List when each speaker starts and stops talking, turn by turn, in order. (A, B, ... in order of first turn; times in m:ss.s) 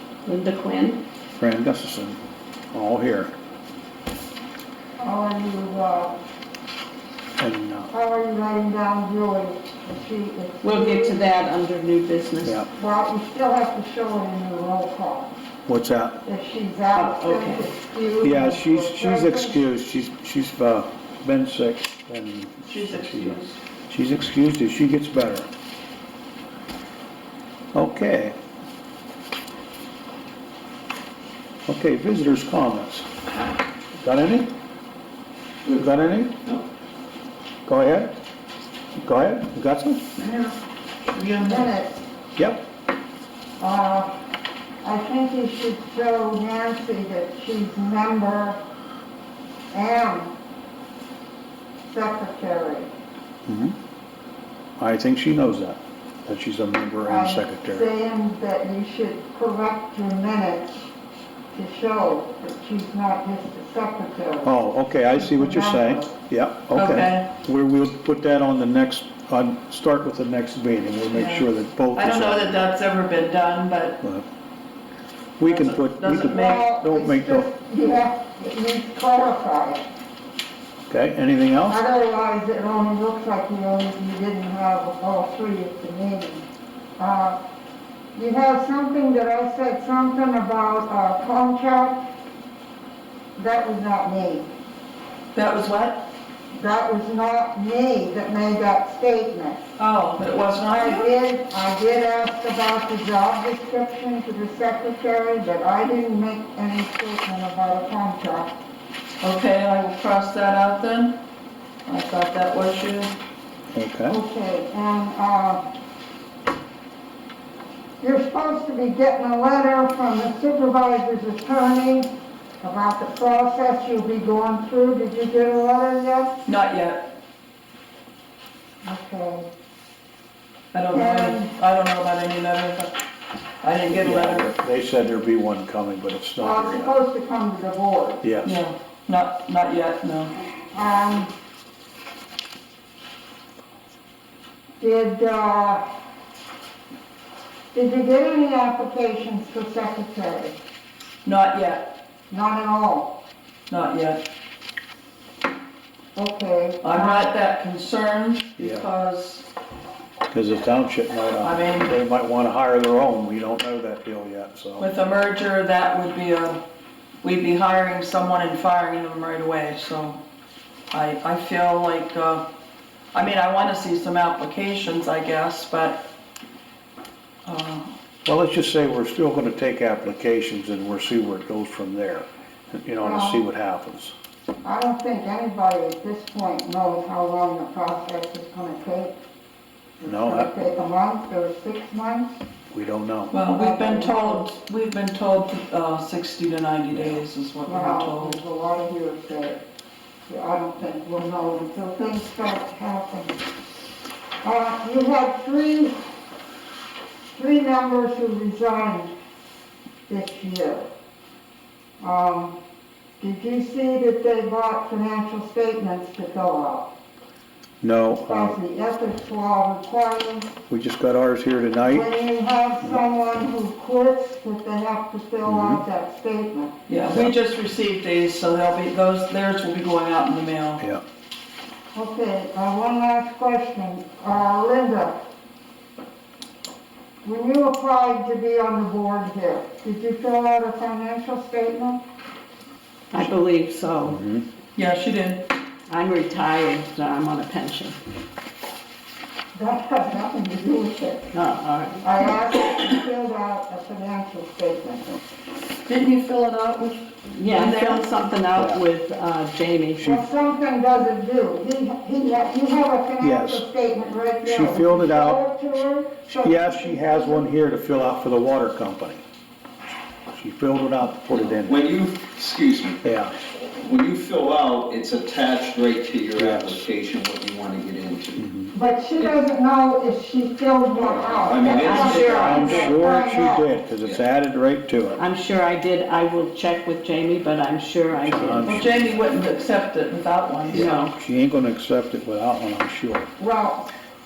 0:00.2-0:01.0 A
0:01.4-0:02.2 B
0:02.7-0:03.3 B
0:05.0-0:06.2 C
0:07.4-0:07.9 B
0:07.9-0:11.3 C
0:10.6-0:12.6 A
0:12.4-0:12.7 B
0:12.7-0:15.3 C
0:15.7-0:16.2 B
0:16.2-0:19.6 C
0:16.9-0:17.7 A
0:18.2-0:25.5 B
0:22.7-0:23.6 D
0:27.7-0:28.4 B
0:31.6-0:33.1 B
0:34.0-0:34.5 B
0:35.8-0:36.3 B
0:37.6-0:38.1 B
0:39.0-0:40.0 B
0:40.2-0:41.8 D
0:41.2-0:42.0 C
0:42.4-0:42.6 B
0:43.6-0:44.1 C
0:44.8-0:48.6 C
0:49.7-0:50.3 C
0:51.9-0:52.9 C
0:53.4-0:53.8 B
0:54.8-0:57.9 B
0:57.0-1:00.9 C
1:01.5-1:04.5 C
1:04.4-1:12.6 B
1:05.1-1:06.1 C
1:06.7-1:07.3 D
1:11.1-1:14.0 D
1:15.4-1:17.5 B
1:15.4-1:16.6 D
1:16.2-1:19.9 C
1:20.9-1:21.8 B
1:21.7-1:26.4 C
1:27.0-1:27.4 C
1:28.1-1:32.0 C
1:33.4-1:34.5 C
1:35.3-1:36.0 D
1:36.5-1:39.7 C
1:39.8-1:41.1 D
1:40.7-1:48.5 C
1:49.2-1:51.2 D
1:51.8-1:53.1 D
1:53.7-1:54.2 B
1:54.1-1:55.6 C
1:58.0-2:02.1 C
2:02.6-2:06.3 C
2:06.4-2:07.1 D
2:08.8-2:09.5 C
2:10.7-2:13.0 D
2:10.9-2:11.5 C
2:13.6-2:14.5 D
2:13.9-2:16.9 B
2:16.4-2:18.2 C
2:18.2-2:18.6 B
2:18.4-2:20.3 D
2:20.7-2:21.3 C
2:24.8-2:25.8 C
2:27.7-2:30.6 C
2:31.2-2:31.9 D
2:32.3-2:33.2 C
2:33.7-2:34.2 D
2:36.2-2:37.3 C
2:36.8-2:39.5 D
2:38.6-2:38.8 B
2:40.3-2:44.9 B
2:41.4-2:41.9 D
2:44.8-2:46.6 D
2:47.2-2:50.2 D
2:50.9-2:52.5 D
2:53.1-2:56.1 D
2:57.4-2:57.9 D
2:58.2-3:04.1 B
3:03.0-3:03.4 C
3:04.6-3:09.2 C
3:10.0-3:12.4 C
3:10.0-3:10.5 B
3:12.7-3:13.3 B
3:13.3-3:18.4 D
3:13.6-3:14.5 C
3:16.9-3:17.2 B
3:17.6-3:19.6 C
3:20.3-3:23.4 C
3:24.4-3:26.0 C
3:27.3-3:29.1 C
3:30.1-3:30.9 C
3:32.0-3:32.6 C
3:33.2-3:36.9 C
3:37.8-3:38.6 B
3:38.3-3:40.5 C
3:40.7-3:42.0 B
3:41.8-3:46.7 C
3:45.4-3:45.8 B
3:46.9-3:50.8 D
3:51.9-3:55.1 C
3:57.2-4:02.0 C
4:03.1-4:04.2 A
4:04.0-4:04.4 B
4:04.8-4:05.5 D
4:05.9-4:08.0 A
4:09.5-4:11.3 C
4:11.3-4:12.0 A
4:12.0-4:15.2 C
4:15.8-4:18.0 D
4:17.3-4:20.1 A
4:18.5-4:18.8 B
4:20.0-4:20.2 B
4:20.0-4:27.4 C
4:23.2-4:23.6 B
4:24.4-4:25.4 B
4:26.3-4:29.2 B
4:30.3-4:31.8 B
4:31.3-4:33.0 E
4:33.0-4:33.3 B
4:33.8-4:38.5 E
4:36.4-4:36.8 B
4:38.4-4:38.7 B
4:38.7-4:43.8 C
4:41.0-4:42.7 E
4:41.6-4:43.0 A
4:42.0-4:45.2 B
4:45.2-4:48.7 A
4:48.1-4:49.2 B
4:48.6-4:50.9 D
4:50.7-4:53.3 B
4:50.7-4:51.1 A
4:53.4-4:53.9 C